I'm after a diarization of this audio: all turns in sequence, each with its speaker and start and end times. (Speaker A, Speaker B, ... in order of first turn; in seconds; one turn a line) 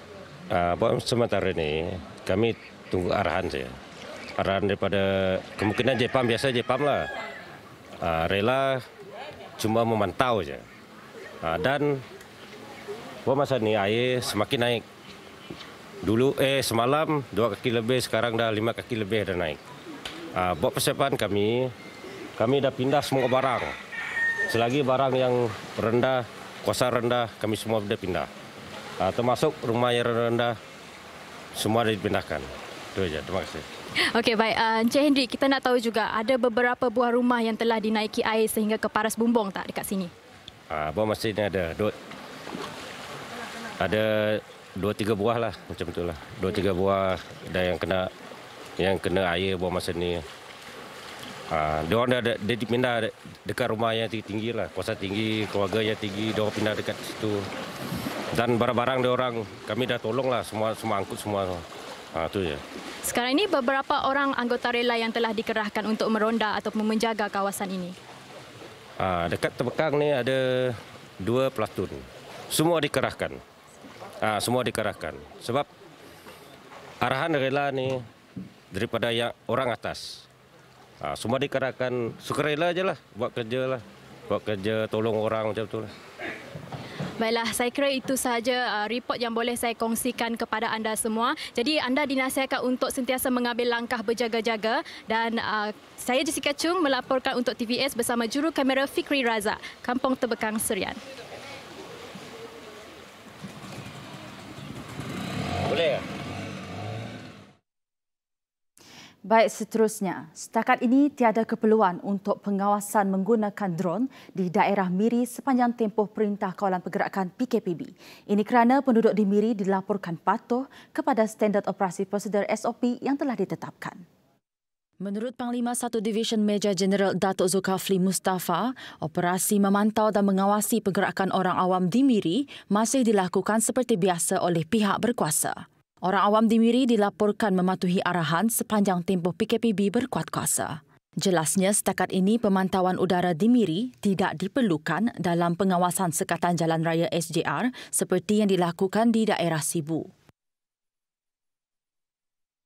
Speaker A: 0.5-3.7
Speaker A: 4.4-7.1
Speaker A: 8.0-8.8
Speaker A: 9.6-10.6
Speaker A: 11.4-12.0
Speaker A: 13.2-14.8
Speaker A: 16.0-19.6
Speaker A: 20.3-21.7
Speaker A: 22.4-23.7
Speaker A: 24.5-28.3
Speaker A: 29.0-30.6
Speaker A: 31.6-33.6
Speaker B: 34.1-40.1
Speaker A: 40.7-41.9
Speaker A: 43.8-48.1
Speaker A: 48.8-50.2
Speaker A: 51.5-57.5
Speaker A: 58.3-61.6
Speaker A: 62.1-62.6
Speaker B: 63.0-67.9
Speaker A: 69.0-73.4
Speaker A: 74.2-75.7
Speaker A: 77.0-78.0
Speaker A: 78.7-80.2
Speaker A: 81.0-85.9
Speaker B: 87.2-101.0
Speaker A: 105.7-106.0
Speaker C: 109.2-124.0
Speaker C: 125.0-150.1